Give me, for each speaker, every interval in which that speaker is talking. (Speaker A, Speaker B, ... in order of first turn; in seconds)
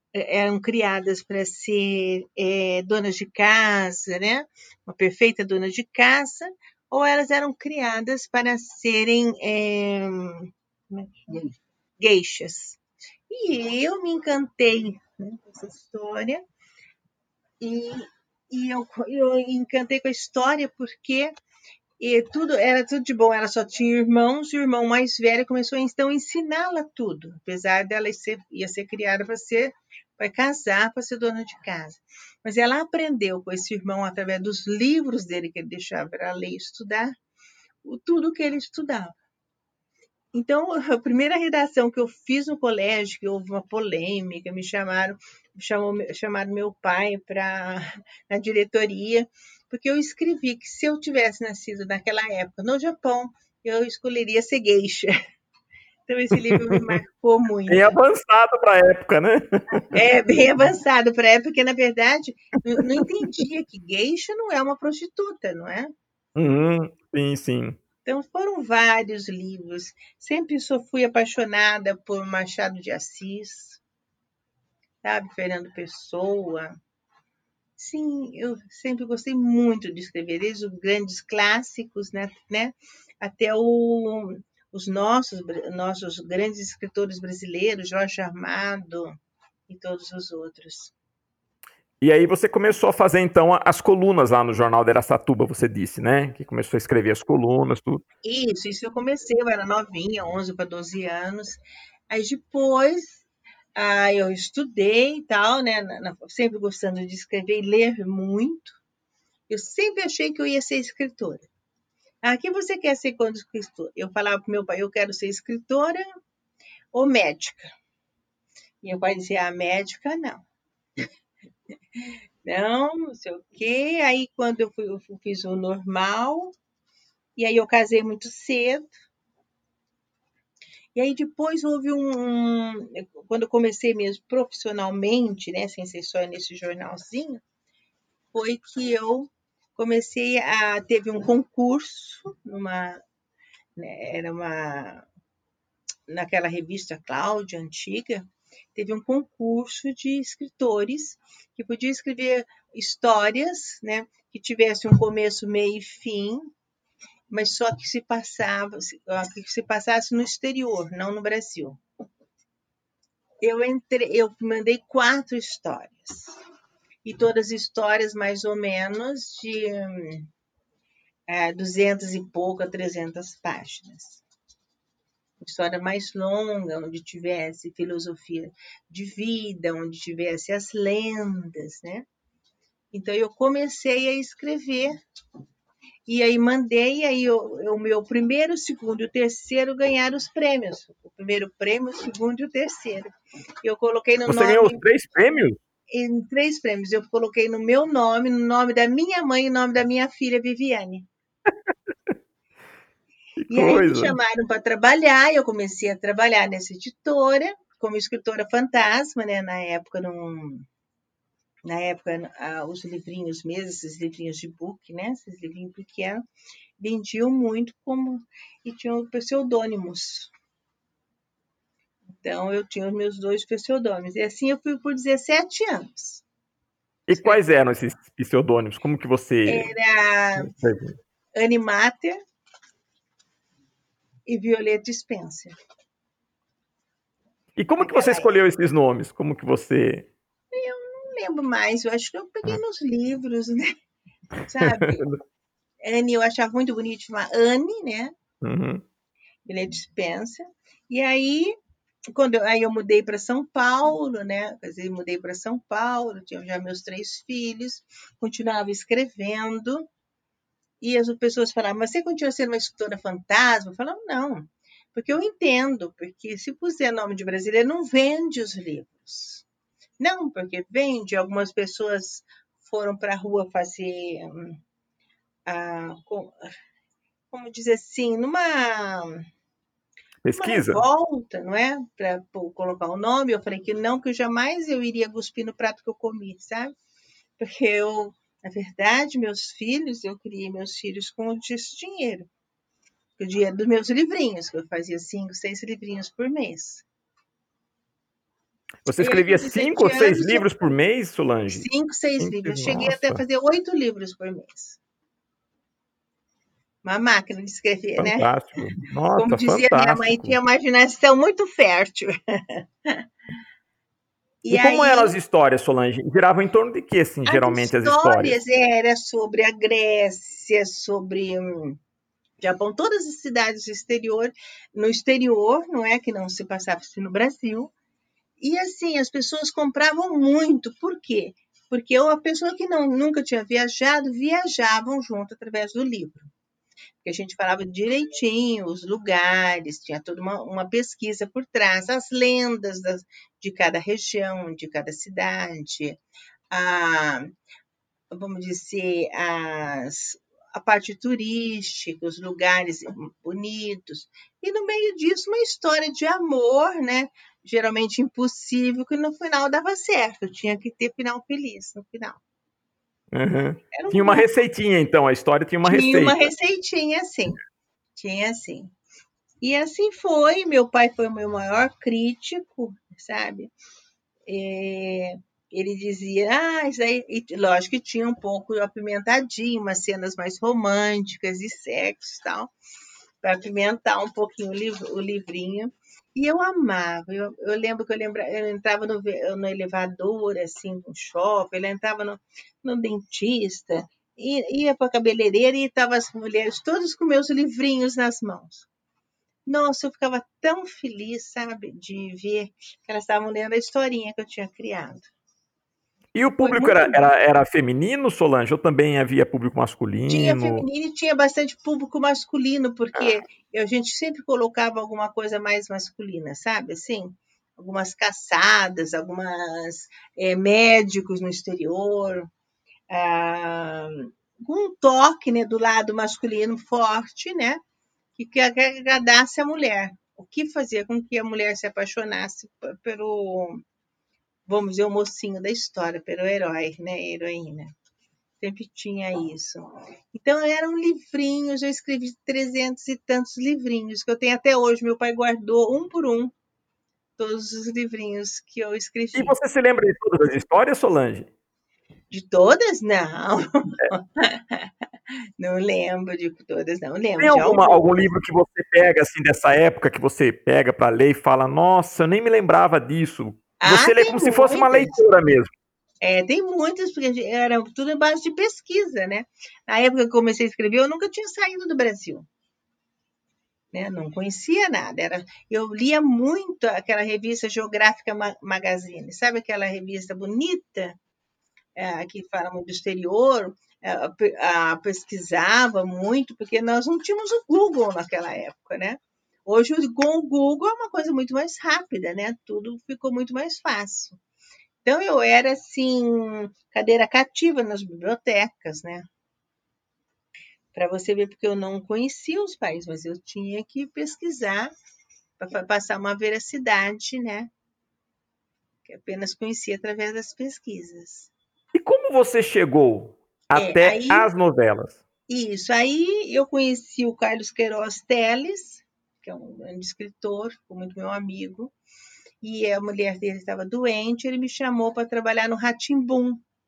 Speaker A: 0.1-16.4, 17.6-21.3, 22.0-37.1, 37.8-39.1, 40.3-55.1, 56.1-57.9, 59.9-65.9, 68.0-73.8, 75.0-76.8, 77.8-89.1, 89.7-90.9, 98.2-103.2, 103.8-108.8, 109.5-111.5, 112.2-116.0, 116.9-117.7, 118.8-120.4, 121.9-126.5, 127.3-128.9, 130.9-137.4, 138.3-143.0, 143.8-145.1, 146.1-156.5, 157.3-161.8, 163.4-166.3, 167.0-170.3, 171.3-174.2, 175.4-182.0, 182.9-184.9, 186.1-193.1, 193.6-194.8, 195.9-201.1, 203.5-210.7, 211.6-216.2, 216.8-220.3, 222.2-226.2, 227.1-227.4, 229.4-230.5, 231.3-232.2, 234.2-235.5, 237.8-238.4, 240.5-243.7, 244.4-245.0, 245.8-248.1, 249.4-251.5, 252.1-259.9, 260.8-269.4, 270.0-274.6, 275.5-276.4, 277.3-279.2, 280.3-286.7, 287.4-292.3, 293.2-296.8, 299.0-300.4, 301.5-304.8, 306.8-308.3, 309.2-313.0, 314.4-315.1, 317.2-321.8, 322.4-327.7, 328.4-336.3, 337.0-346.0, 346.5-347.3, 348.1-362.2, 363.7-364.3, 365.6-367.4, 367.9-368.7, 369.4-373.5, 374.2-382.5, 383.2-398.7, 399.4-405.1, 406.4-407.1, 410.1-422.3, 422.9-427.6, 428.1-433.6, 434.4-437.7, 438.4-446.3, 447.2-449.3, 452.1-454.7, 455.4-457.9, 463.6-465.0, 466.0-472.3, 473.7-481.0, 481.8-494.2, 494.8-499.1, 500.7-504.7, 505.4-507.5, 508.8-511.3, 513.5-514.3, 515.3-521.7, 522.4-526.4
Speaker B: 56.5-56.7, 57.7-59.8, 66.3-67.8, 92.0-98.0, 194.3-195.6, 203.4-204.1, 227.1-229.7, 230.4-230.9, 237.6-240.1, 244.6-245.2, 248.4-248.8, 280.2-280.8, 298.8-301.7, 302.2-303.2, 308.0-310.4, 314.5-318.4, 363.1-366.3, 406.1-410.6, 449.1-451.3, 457.2-465.5, 511.7-515.0